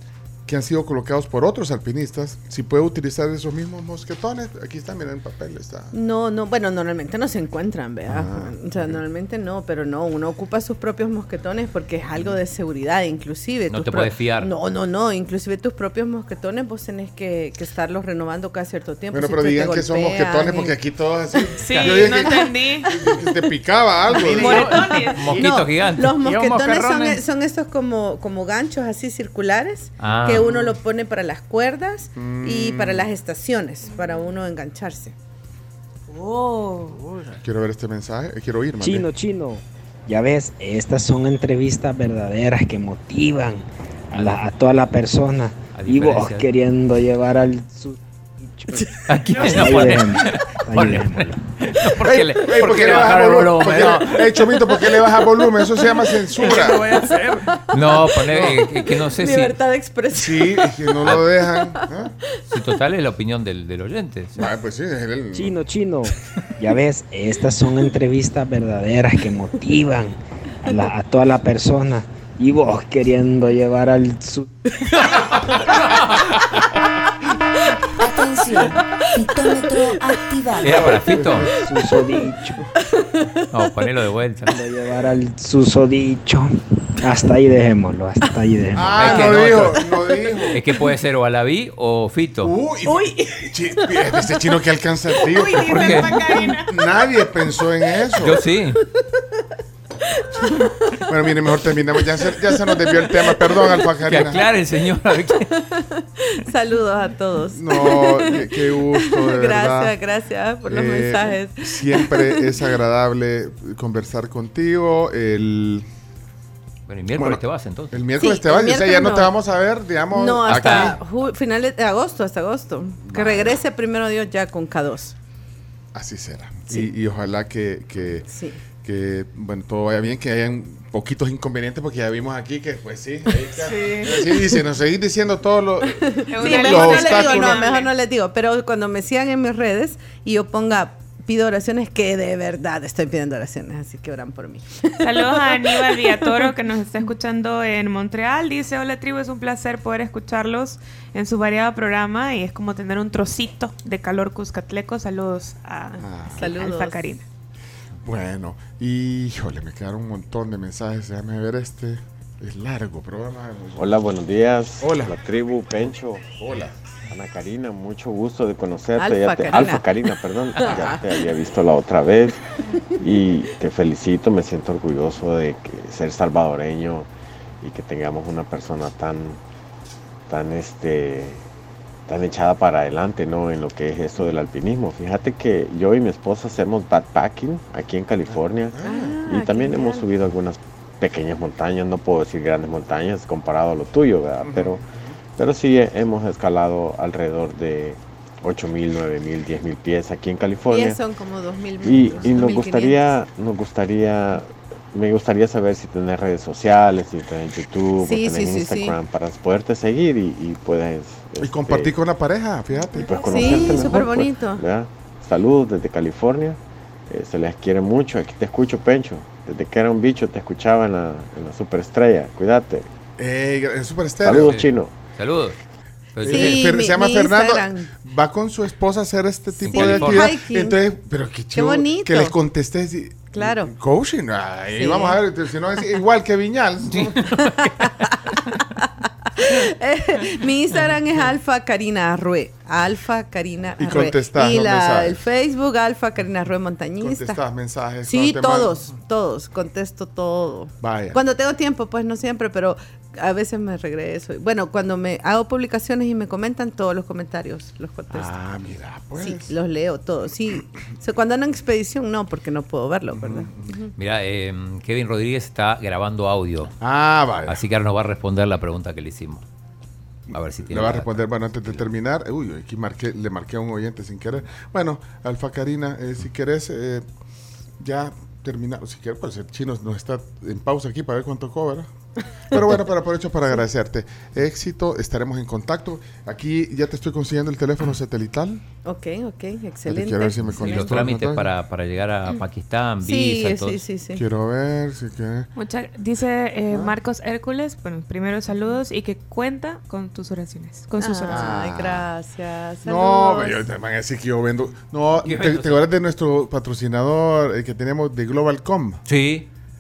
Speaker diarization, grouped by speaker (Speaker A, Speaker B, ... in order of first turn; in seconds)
Speaker A: 0.5-5.9, 8.1-9.0, 19.1-24.7, 30.2-30.7, 32.1-33.1, 37.4-39.1, 52.1-56.9, 58.3-58.6, 60.1-62.1, 64.3-65.6, 80.7-81.7, 88.7-90.6, 92.4-98.4, 101.0-104.4, 107.5-109.9, 110.7-115.8, 117.2-121.0, 123.0-123.6, 125.9-128.3, 128.8-137.6, 156.0-156.5, 158.0-164.1, 164.8-165.2, 166.4-166.7, 170.6-171.0, 188.3-189.2, 194.4-195.1, 211.4-213.9, 223.2-224.6, 226.2-237.1, 243.8-245.2, 247.0-248.7, 250.8-251.2, 258.1-259.5, 263.1-263.7, 266.8-267.6, 270.3-277.0, 277.8-281.9, 282.5-288.6, 289.9-291.5, 294.1-295.5, 296.7-296.9, 301.3-302.1, 302.8-309.0
Speaker B: 5.9-20.8, 21.4-22.5, 24.4-35.1, 55.1-55.8, 56.3-57.2, 58.4-61.1, 75.0-75.7, 82.8-83.4, 89.0-90.5, 92.8-94.4, 95.1-96.7, 98.9-99.5, 100.1-101.0, 102.4-103.8, 105.6-112.5, 118.2-119.3, 120.1-125.2, 128.3-128.6, 133.5-134.6, 135.9-146.5, 156.3-157.1, 169.0-169.9, 170.6-171.0, 188.8-190.1, 200.7-203.1, 208.0-208.9, 213.0-214.6, 226.2-227.9, 229.5-230.8, 231.5-232.3, 233.3-233.7, 234.8-235.2, 237.3-247.4, 248.0-258.3, 259.2-263.9, 288.8-290.9, 293.0-294.2, 301.0-303.6
Speaker C: 13.7-14.5, 25.1-26.2, 30.0-30.5, 44.1-44.5, 45.7-46.5, 49.1-54.3, 57.7-59.6, 62.5-64.3, 80.6-81.5, 83.5-84.5, 89.0-89.8, 90.5-92.5, 95.6-96.2, 98.2-98.8, 104.0-105.5, 116.9-118.1, 120.5-121.0, 224.3-225.6, 226.1-226.6, 229.7-230.3, 236.9-237.9, 264.0-266.7, 267.4-269.4, 270.3-271.8, 290.6-293.8, 305.2-305.8, 309.1-309.5
Speaker D: 21.6-22.9, 24.2-25.4, 136.3-137.9, 145.0-157.2, 295.5-301.5
Speaker E: 36.2-37.2, 38.8-51.4, 56.5-57.4, 65.3-74.5, 81.5-82.6, 84.5-88.9
Speaker F: 78.0-80.6
Speaker G: 163.8-166.3, 167.1-172.4, 173.0-177.1, 177.6-179.4, 180.3-181.4, 182.1-194.8, 195.4-201.0, 201.8-211.9, 212.9-222.9, 224.2-224.9